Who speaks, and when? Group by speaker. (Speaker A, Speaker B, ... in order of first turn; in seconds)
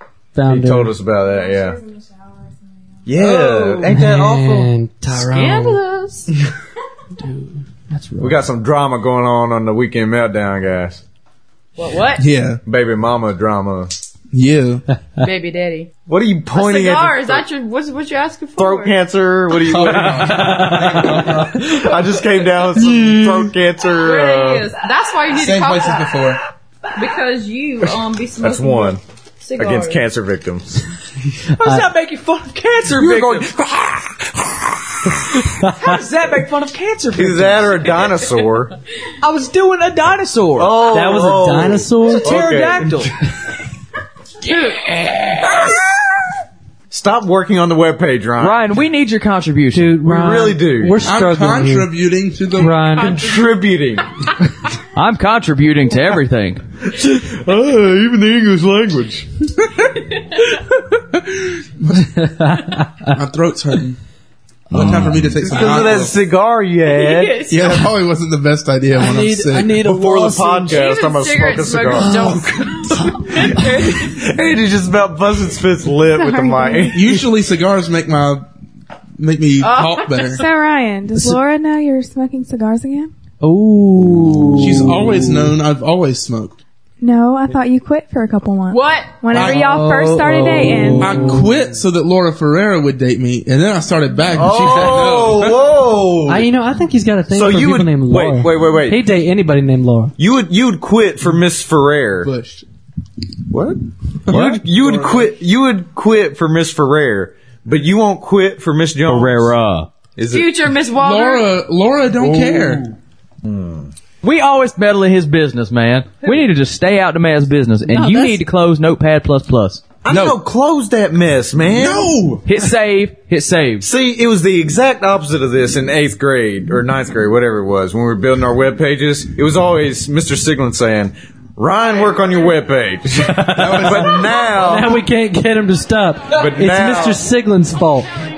Speaker A: 0.3-0.9, 3.9-5.8, 7.2-8.4, 20.6-21.0, 31.6-31.9, 35.5-35.9, 40.9-42.4, 49.7-51.9, 52.6-53.1, 62.0-63.1, 69.0-70.8, 72.0-73.3, 81.1-81.4, 83.4-85.5, 89.3-91.5, 96.3-100.1, 117.9-118.3, 133.2-138.1
Speaker B: 0.5-1.8, 3.0-4.7, 8.2-11.0, 12.6-13.9, 16.1-17.4, 18.6-24.7, 27.8-29.0, 29.6-30.8, 32.9-33.5, 37.1-38.7, 40.5-43.1, 46.9-48.6, 50.0-51.0, 52.9-54.0, 56.8-59.8, 64.7-67.4, 69.8-72.3, 73.7-77.0, 94.3-96.5, 97.3-99.0, 100.2-102.3, 103.5-109.6, 110.2-110.5, 112.3-112.8, 113.4-113.9, 120.0-122.2, 123.8-134.9, 136.3-137.2
Speaker C: 2.0-2.5, 80.3-83.1, 87.0-91.2
Speaker D: 3.2-4.0, 5.1-6.3, 11.8-12.2, 15.2-16.0, 16.5-19.0, 23.9-26.4, 26.9-30.1, 59.9-60.4, 66.8-67.9, 70.7-74.1, 76.1-77.0, 79.6-80.5, 88.7-89.3, 110.2-111.5
Speaker E: 12.2-12.6, 14.3-14.8, 19.6-21.6, 25.3-26.4, 51.0-53.0, 61.3-62.0, 63.1-64.0, 64.7-66.1, 67.5-69.8, 76.9-78.5, 79.2-80.4, 84.6-86.5, 89.3-89.6, 91.0-95.6, 102.2-102.6, 104.3-104.6, 111.0-112.8, 120.1-120.4, 121.7-122.4
Speaker F: 31.5-34.3, 35.1-38.2, 39.1-40.9, 42.1-43.1, 44.5-45.6, 48.4-49.9, 54.9-56.6, 104.3-104.6, 109.0-109.9, 114.2-119.8, 122.4-123.9